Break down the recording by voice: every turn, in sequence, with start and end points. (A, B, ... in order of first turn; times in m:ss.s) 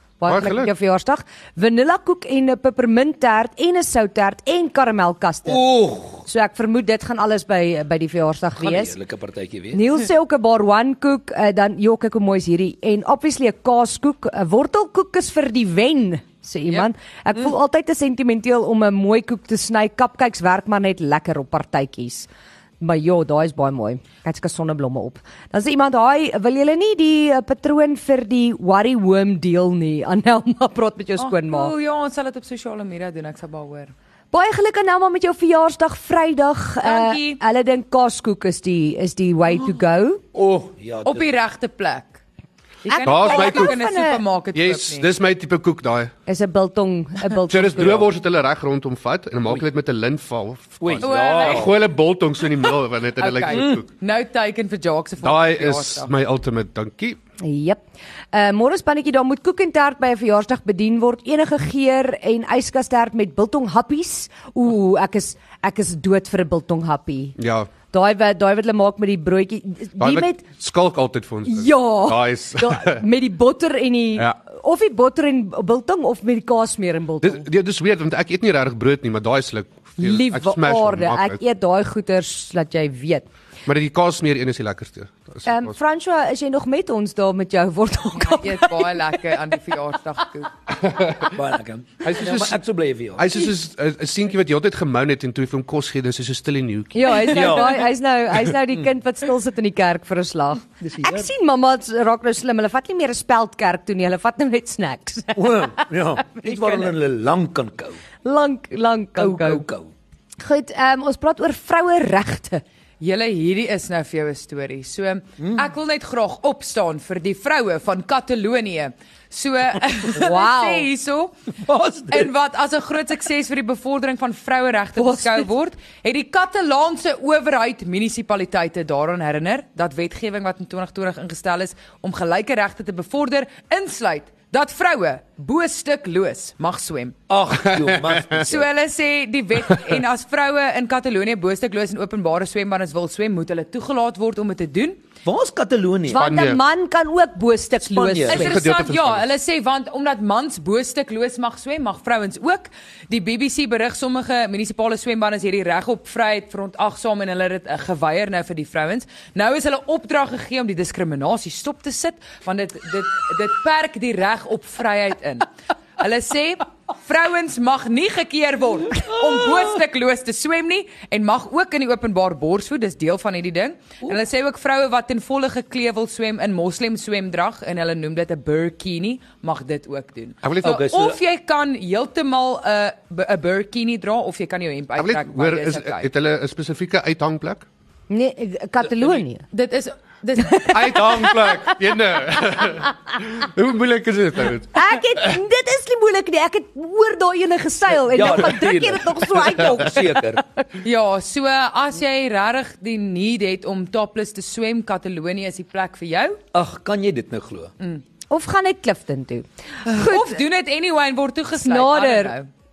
0:00.2-0:05.6 A
0:00.3-0:00.7 B
0:05.4-0:06.2 C
0:06.2-0:08.9 A
0:08.6-0:09.8 C
0:09.7-0:22.3 A
0:22.8-0:31.7 A
0:31.2-0:33.9 D
0:34.3-0:40.2 A
0:36.8-0:37.4 D
0:40.3-0:41.3 C
0:41.0-0:42.2 D
0:42.8-0:44.2 A
0:42.8-0:45.1 D
0:43.0-0:43.8 B
0:44.5-0:46.1 B
0:46.3-0:48.1 A
0:47.5-0:53.9 B
0:50.8-0:51.7 C
0:51.0-0:51.8 D
0:53.2-0:56.1 D
0:53.5-0:53.8 C
0:55.2-0:57.2 B
0:57.4-0:57.8 A
0:58.3-1:07.4 A
1:07.4-1:07.7 B
1:07.9-1:10.4 A
1:10.0-1:13.0 B
1:11.4-1:17.4 A
1:17.2-1:21.4 B
1:20.0-1:23.2 A
1:23.6-1:25.8 B
1:25.4-1:29.0 A
1:28.2-1:30.5 D
1:30.8-1:31.3 B
1:31.3-1:33.4 C
1:32.0-1:32.6 B
1:33.2-1:37.7 B
1:36.9-1:46.9 A
1:37.2-1:37.9 C
1:40.8-1:41.3 C
1:45.4-1:48.0 C
1:48.2-1:49.6 A
1:49.2-1:49.9 C
1:50.4-1:52.6 A
1:53.0-2:01.3 D
1:55.4-1:55.6 C
2:00.2-2:00.9 A
2:01.6-2:02.3 C
2:02.1-2:17.2 D
2:05.0-2:05.5 A
2:17.3-2:18.7 C
2:17.7-2:18.4 B
2:18.3-2:25.0 D
2:25.2-2:26.3 C
2:26.1-2:28.6 A
2:26.1-2:26.6 B
2:27.8-2:28.5 C
2:28.3-3:06.1 D
2:28.3-2:29.3 B
3:00.4-3:00.8 B
3:00.6-3:01.2 C
3:05.0-3:07.6 B
3:08.1-3:09.4 A
3:09.5-3:11.5 D
3:10.4-3:11.3 A
3:10.7-3:15.4 B
3:14.7-3:20.4 A
3:17.9-3:20.4 C
3:20.8-3:26.4 D
3:26.5-3:27.7 C
3:28.3-3:30.4 A
3:29.9-3:32.5 D
3:31.6-3:32.3 A